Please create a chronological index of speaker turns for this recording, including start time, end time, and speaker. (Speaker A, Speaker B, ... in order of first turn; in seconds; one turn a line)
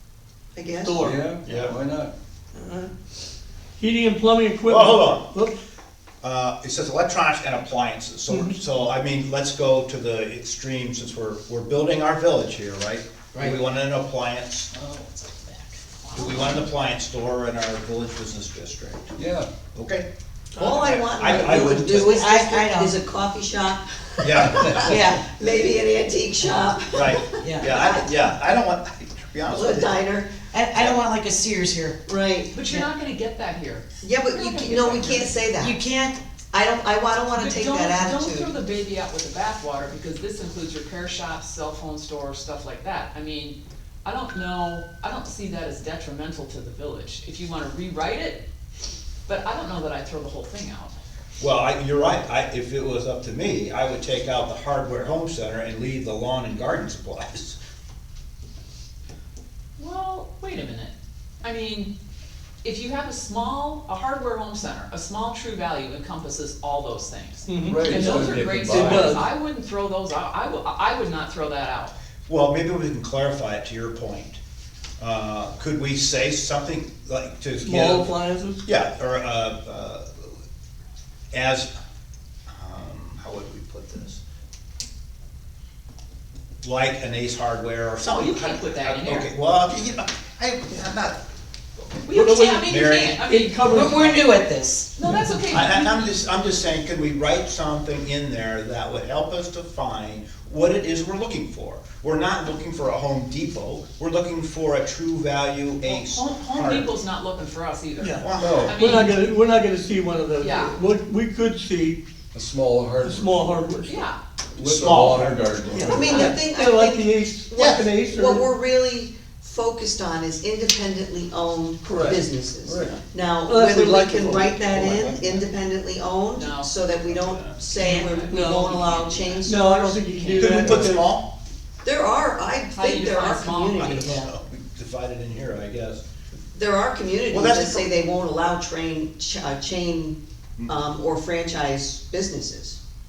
Speaker A: 0.5-1.2
Speaker B: 0.8-1.2
Speaker C: 1.0-2.1
Speaker D: 1.4-1.7
Speaker B: 2.5-2.9
Speaker B: 3.8-5.5
Speaker D: 4.7-5.3
Speaker D: 6.2-14.7
Speaker B: 8.3-8.5
Speaker E: 14.7-15.8
Speaker F: 16.0-16.6
Speaker D: 16.1-19.2
Speaker C: 19.1-19.5
Speaker D: 19.7-20.1
Speaker B: 20.6-20.9
Speaker A: 20.6-27.6
Speaker D: 20.7-22.2
Speaker E: 21.2-23.0
Speaker D: 24.2-25.0
Speaker E: 24.8-25.2
Speaker D: 26.9-29.9
Speaker E: 27.4-28.2
Speaker A: 29.5-30.4
Speaker E: 30.4-32.0
Speaker D: 30.8-31.0
Speaker A: 32.1-32.6
Speaker F: 32.5-35.3
Speaker A: 34.0-35.8
Speaker E: 35.6-36.2
Speaker A: 36.5-38.5
Speaker F: 37.3-48.4
Speaker F: 49.2-50.9
Speaker D: 51.4-57.6
Speaker F: 59.8-61.9
Speaker F: 62.6-71.9
Speaker B: 67.5-69.3
Speaker C: 67.6-69.2
Speaker D: 72.3-74.4
Speaker D: 75.0-78.1
Speaker B: 77.6-78.6
Speaker D: 78.6-80.3
Speaker D: 81.3-81.7
Speaker D: 82.5-84.2
Speaker D: 86.6-91.2
Speaker F: 88.0-89.3
Speaker D: 91.8-93.2
Speaker F: 92.0-93.9
Speaker B: 92.1-94.3
Speaker E: 93.6-94.9
Speaker F: 94.9-96.2
Speaker B: 95.0-95.4
Speaker D: 95.5-106.9
Speaker F: 105.8-109.3
Speaker B: 108.0-112.0
Speaker D: 108.2-108.9
Speaker C: 108.4-108.8
Speaker F: 110.4-110.8
Speaker C: 112.3-113.8
Speaker B: 113.0-114.0
Speaker F: 113.8-114.2
Speaker D: 114.5-116.0
Speaker C: 114.5-116.4
Speaker B: 115.7-118.5
Speaker A: 115.9-130.0
Speaker D: 117.6-117.9
Speaker B: 121.8-122.2
Speaker C: 122.6-123.0
Speaker B: 123.4-124.6
Speaker D: 124.4-125.5
Speaker F: 126.3-126.7
Speaker D: 127.0-127.6
Speaker E: 127.7-128.2
Speaker F: 127.9-130.7
Speaker B: 128.3-128.7
Speaker B: 129.4-131.1
Speaker D: 130.3-131.3
Speaker A: 131.8-134.2
Speaker F: 132.7-134.1
Speaker E: 133.9-134.3
Speaker D: 134.0-136.0
Speaker A: 136.5-142.8
Speaker D: 137.3-137.9